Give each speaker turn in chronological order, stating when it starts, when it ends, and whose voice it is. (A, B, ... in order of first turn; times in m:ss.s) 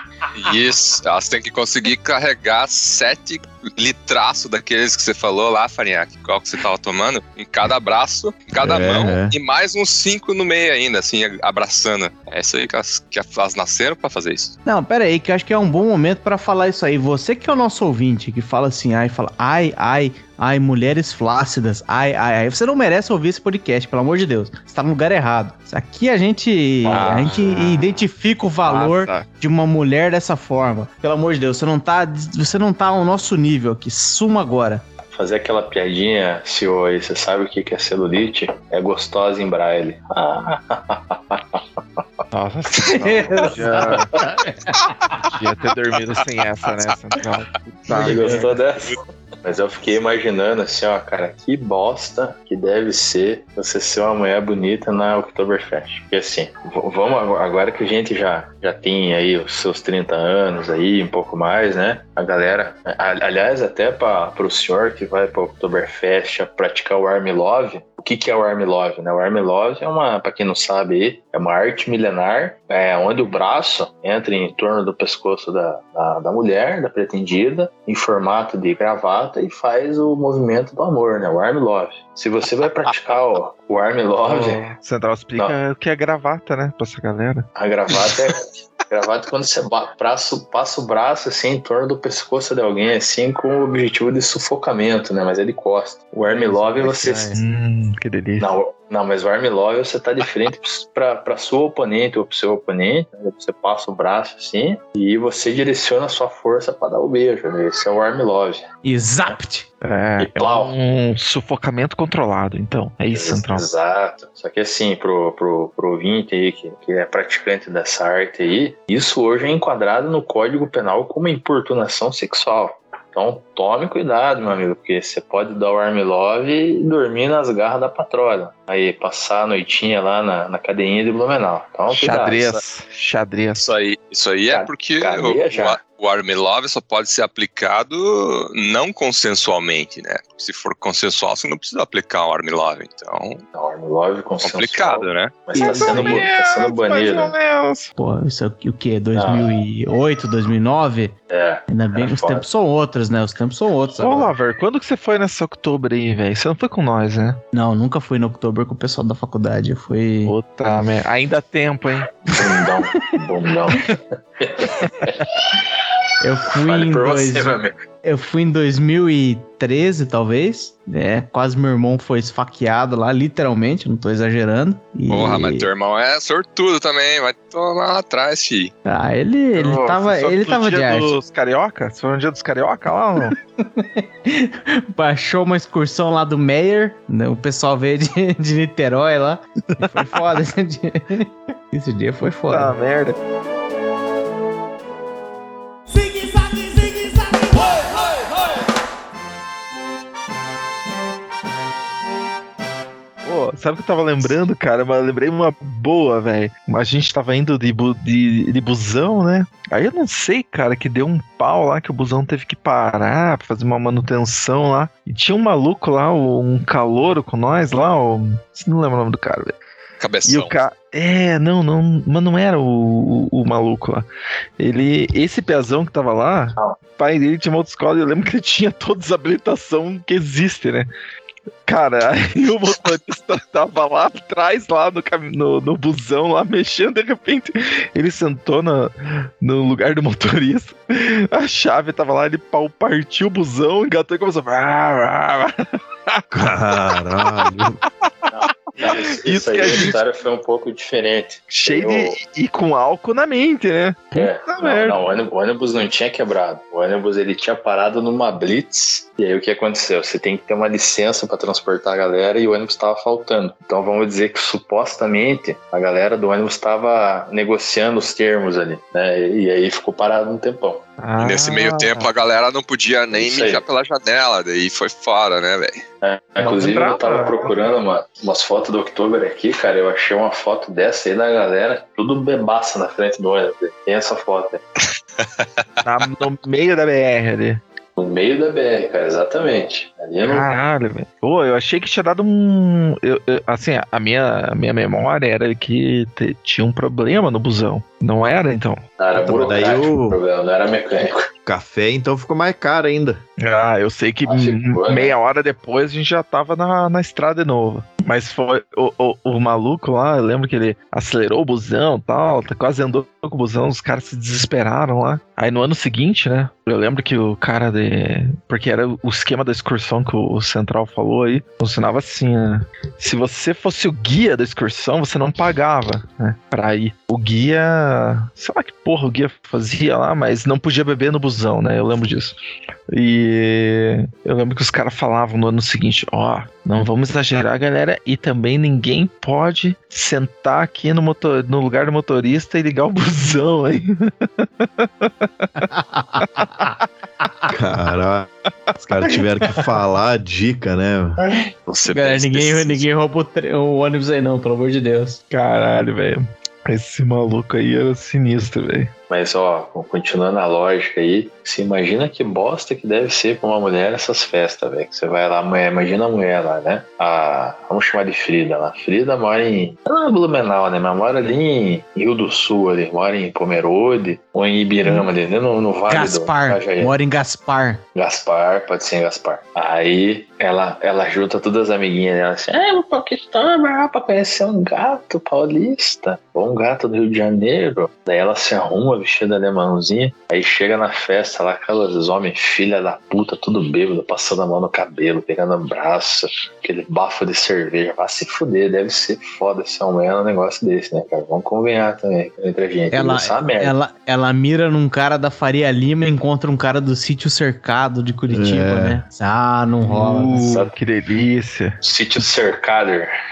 0:00.3-0:14.5 A
0:08.5-0:09.3 B
0:14.6-0:34.8 C
0:26.8-0:27.4 D
0:26.9-0:27.8 E
0:28.6-0:29.2 E
0:35.1-0:42.0 D
0:42.3-0:44.1 E
0:42.9-0:45.3 C
0:45.3-0:48.6 E
0:47.9-1:24.7 D
0:48.2-0:48.5 C
1:24.2-1:27.4 E
1:27.6-1:37.4 D
1:36.2-1:37.4 C
1:37.3-1:38.5 E
1:38.4-1:48.6 D
1:48.8-1:49.6 C
1:49.8-1:53.6 E
1:50.2-1:50.7 D
1:53.1-2:12.6 D
2:11.9-2:13.6 E
2:13.6-2:23.4 A
2:14.5-2:15.8 D
2:23.5-2:27.3 D
2:24.4-2:25.5 A
2:25.5-2:26.2 C
2:25.5-2:27.9 E
2:28.0-2:31.1 C
2:29.2-2:29.5 D
2:31.3-2:32.4 D
2:31.7-2:34.3 C
2:34.0-2:37.4 E
2:37.5-2:40.3 C
2:40.2-2:42.2 E
2:42.2-2:45.6 D
2:46.2-2:55.7 C
2:46.6-2:47.8 D
2:55.1-2:58.7 A
2:58.8-3:01.1 C
2:59.5-3:03.3 E
3:03.6-3:12.7 C
3:12.5-3:13.2 E
3:16.0-3:18.4 E
3:23.2-3:39.6 E
3:40.0-3:40.5 A
3:40.3-3:44.1 E
3:44.6-3:50.9 E
3:51.6-4:06.2 E
4:06.3-4:07.8 B
4:08.3-4:12.2 D
4:08.8-4:10.0 E
4:11.5-4:15.0 E
4:14.1-4:30.8 D
4:31.0-4:32.1 E
4:31.2-4:35.8 A
4:33.1-4:33.6 D
4:36.0-4:44.6 D
4:36.4-4:37.5 E
4:45.2-4:45.6 A
4:45.8-4:47.6 E
4:48.0-4:50.4 D
4:50.2-4:58.8 E
4:59.0-5:01.3 D
4:59.2-5:00.2 B
5:01.4-5:03.2 B
5:03.4-5:32.4 E
5:04.2-5:05.1 D
5:32.9-5:45.6 E
5:45.7-5:46.6 C
5:47.5-5:51.2 B
5:49.0-5:49.2 E
5:51.6-5:52.8 A
5:51.9-5:55.2 C
5:55.3-5:58.9 E
5:59.1-6:16.9 D
6:15.9-6:17.8 C
6:17.9-6:43.7 D
6:42.9-6:50.5 C
6:48.3-6:49.0 B
6:49.8-6:51.8 E
6:50.3-6:50.7 D
6:51.8-6:53.1 D